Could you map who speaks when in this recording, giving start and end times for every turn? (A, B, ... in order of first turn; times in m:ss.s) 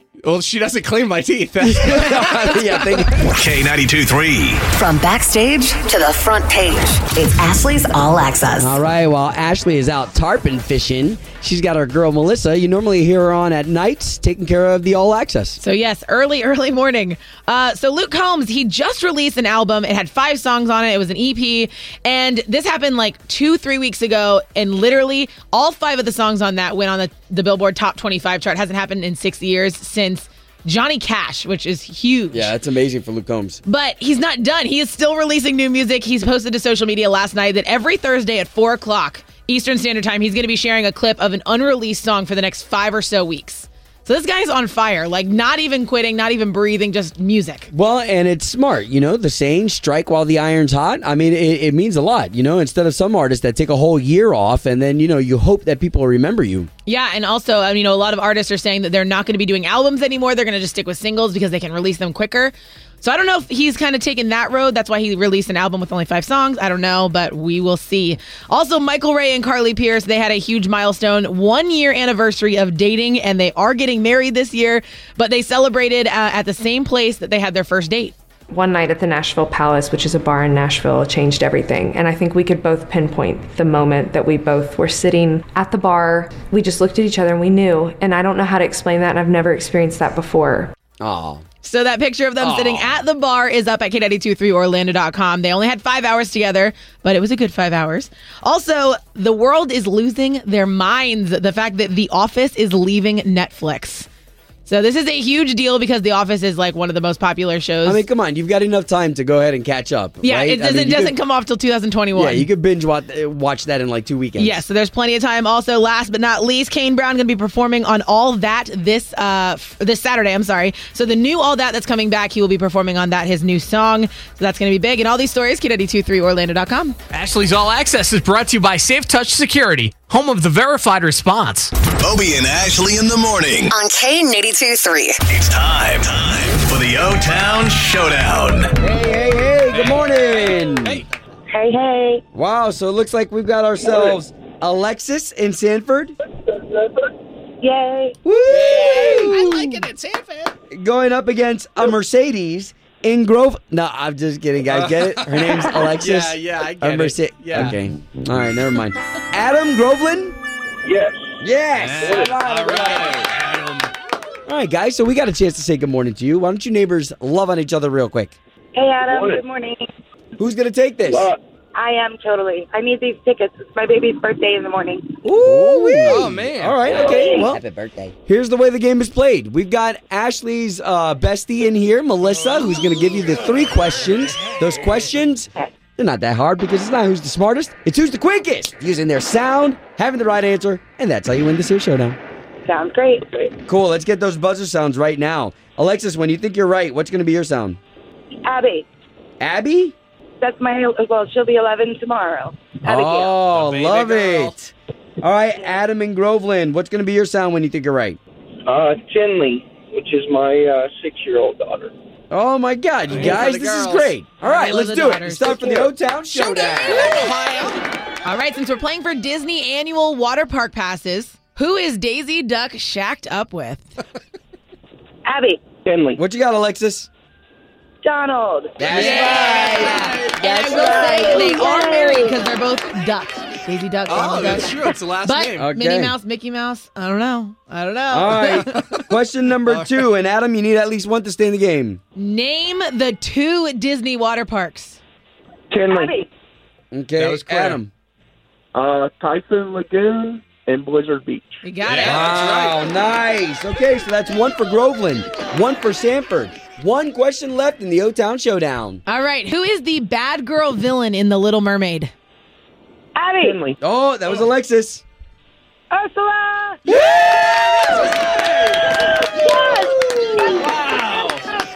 0:00.2-0:02.9 A
0:01.6-0:03.3 B
0:03.3-0:04.6 C
0:04.7-0:08.8 D
0:08.6-0:15.6 B
0:15.6-0:32.5 E
0:32.3-0:33.6 B
0:33.7-0:47.7 E
0:47.7-0:56.7 B
0:56.9-1:18.2 E
1:18.5-1:30.7 F
1:31.0-1:31.4 B
1:31.6-1:44.1 E
1:32.4-1:33.0 B
1:44.7-1:48.0 E
1:47.8-1:51.2 B
1:50.2-1:52.5 E
1:52.1-1:54.6 B
1:54.4-2:07.0 E
2:07.1-2:11.7 A
2:12.0-2:13.7 C
2:13.7-2:15.2 D
2:15.3-2:18.7 C
2:18.8-2:21.0 B
2:19.7-2:20.2 A
2:20.8-2:21.1 A
2:21.5-2:22.2 G
2:22.3-2:26.1 B
2:27.6-2:28.2 G
2:28.2-2:29.8 B
2:28.5-2:30.5 A
2:30.7-2:40.4 B
2:34.7-2:37.8 A
2:40.8-2:41.4 H
2:41.4-2:43.3 B
2:41.8-2:43.9 A
2:42.0-2:42.4 H
2:44.5-2:48.4 B
2:48.8-2:49.9 G
2:49.0-2:49.4 H
2:50.4-2:51.3 B
2:51.1-2:51.4 H
2:51.8-2:55.2 G
2:55.2-2:57.6 B
2:56.0-2:56.9 A
2:57.0-2:57.5 G
2:58.2-3:12.2 B
3:12.6-3:13.4 G
3:13.7-3:17.8 B
3:18.4-3:18.9 G
3:19.4-3:20.0 B
3:20.4-3:23.4 G
3:22.8-3:28.2 B
3:23.5-3:24.5 A
3:28.7-3:31.9 H
3:32.3-3:37.3 B
3:33.1-3:34.1 A
3:34.4-3:35.9 E
3:36.4-3:37.8 A
3:36.8-3:37.3 E
3:38.2-3:44.0 E
3:45.3-3:45.6 G
3:45.8-3:46.2 H
3:46.2-3:47.1 B
3:48.0-3:49.5 G
3:48.8-3:51.6 B
3:48.9-3:58.9 E
3:50.6-3:52.3 G
3:54.1-3:55.7 A
3:55.6-3:56.1 B
3:58.1-4:02.0 B
4:02.2-4:05.0 E
4:05.7-4:06.2 H
4:05.9-4:06.3 G
4:06.9-4:07.9 B
4:07.2-4:07.8 A
4:08.7-4:11.6 H
4:11.6-4:12.7 E
4:11.8-4:12.6 A
4:12.0-4:19.0 B
4:19.1-4:22.1 E
4:23.2-4:23.6 G
4:23.4-4:23.8 H
4:23.8-4:25.0 B
4:25.9-4:26.8 G
4:26.9-4:28.4 B
4:26.9-4:27.3 A
4:28.0-4:28.5 A
4:28.7-4:30.8 G
4:30.4-4:31.4 A